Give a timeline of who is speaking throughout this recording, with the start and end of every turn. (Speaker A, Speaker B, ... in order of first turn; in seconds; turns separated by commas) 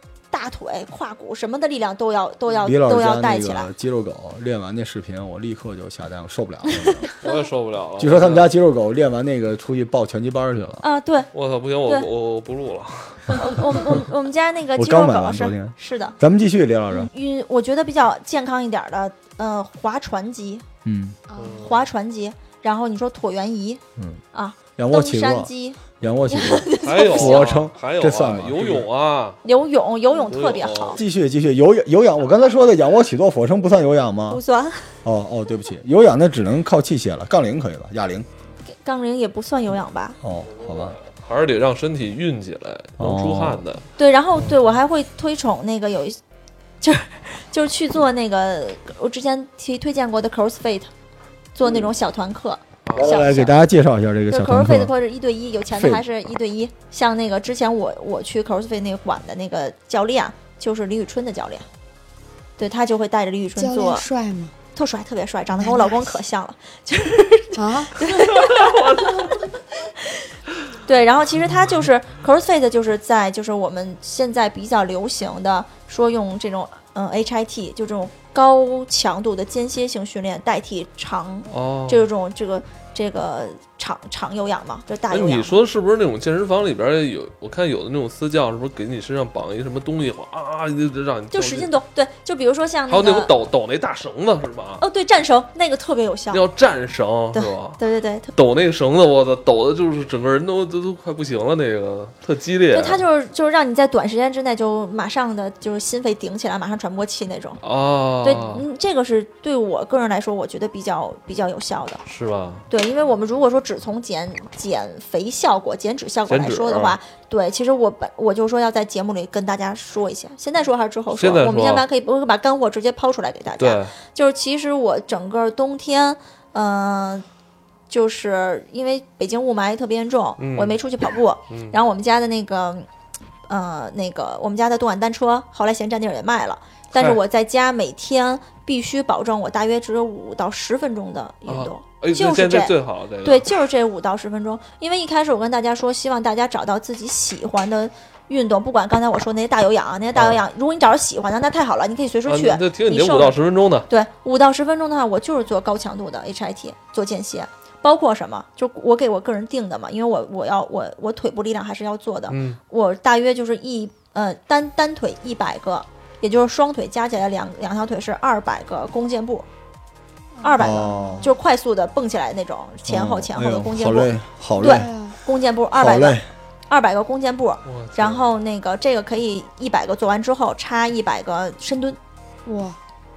Speaker A: 0.3-3.7, Speaker B: 2.6-7.1, Speaker A: 6.7-7.3, Speaker C: 7.2-8.5, Speaker B: 8.0-10.8, Speaker A: 10.8-11.3, Speaker C: 11.3-14.0, Speaker A: 13.3-16.1, Speaker B: 14.8-17.1, Speaker A: 16.9-20.6, Speaker B: 20.8-21.2, Speaker D: 21.3-21.8, Speaker C: 21.4-21.8, Speaker A: 21.6-23.8, Speaker A: 24.3-27.5, Speaker B: 24.8-28.9, Speaker C: 26.8-29.4, Speaker A: 29.4-31.0, Speaker C: 30.2-31.0, Speaker B: 30.9-34.4, Speaker A: 34.3-34.9, Speaker B: 35.0-38.3, Speaker A: 38.7-40.2, Speaker B: 40.2-41.0, Speaker C: 40.6-43.9, Speaker B: 43.0-43.6, Speaker A: 44.0-46.2, Speaker A: 46.8-50.9, Speaker A: 51.5-53.5, Speaker C: 52.9-53.2, Speaker B: 52.9-54.9, Speaker A: 54.3-61.7, Speaker B: 55.7-56.0, Speaker A: 62.6-64.0, Speaker D: 63.5-64.5, Speaker A: 64.8-69.2, Speaker D: 65.5-66.2, Speaker D: 67.5-68.0, Speaker C: 68.3-69.4, Speaker A: 70.0-70.2, Speaker A: 70.8-85.5, Speaker C: 81.5-82.1, Speaker C: 85.1-91.7, Speaker A: 91.3-93.3, Speaker C: 92.9-94.8, Speaker A: 94.8-96.4, Speaker C: 96.3-97.8, Speaker A: 97.3-98.3, Speaker C: 98.3-103.0, Speaker A: 102.7-107.6, Speaker C: 107.6-108.6, Speaker A: 108.2-112.0, Speaker C: 112.0-112.7, Speaker A: 112.7-127.2, Speaker C: 116.3-117.0, Speaker C: 121.1-121.8, Speaker C: 123.6-123.9, Speaker A: 127.9-132.8, Speaker C: 130.4-130.8, Speaker C: 131.5-131.8, Speaker A: 133.5-153.4, Speaker C: 136.9-137.2, Speaker C: 141.5-143.5, Speaker C: 150.1-150.4, Speaker C: 152.2-153.9, Speaker A: 153.9-169.5, Speaker C: 162.3-162.6, Speaker D: 170.3-171.4, Speaker A: 170.4-176.2, Speaker B: 170.6-171.3, Speaker B: 172.9-174.9, Speaker D: 174.6-175.2, Speaker B: 175.8-176.3, Speaker A: 176.7-182.0, Speaker C: 177.6-178.3, Speaker D: 182.4-182.8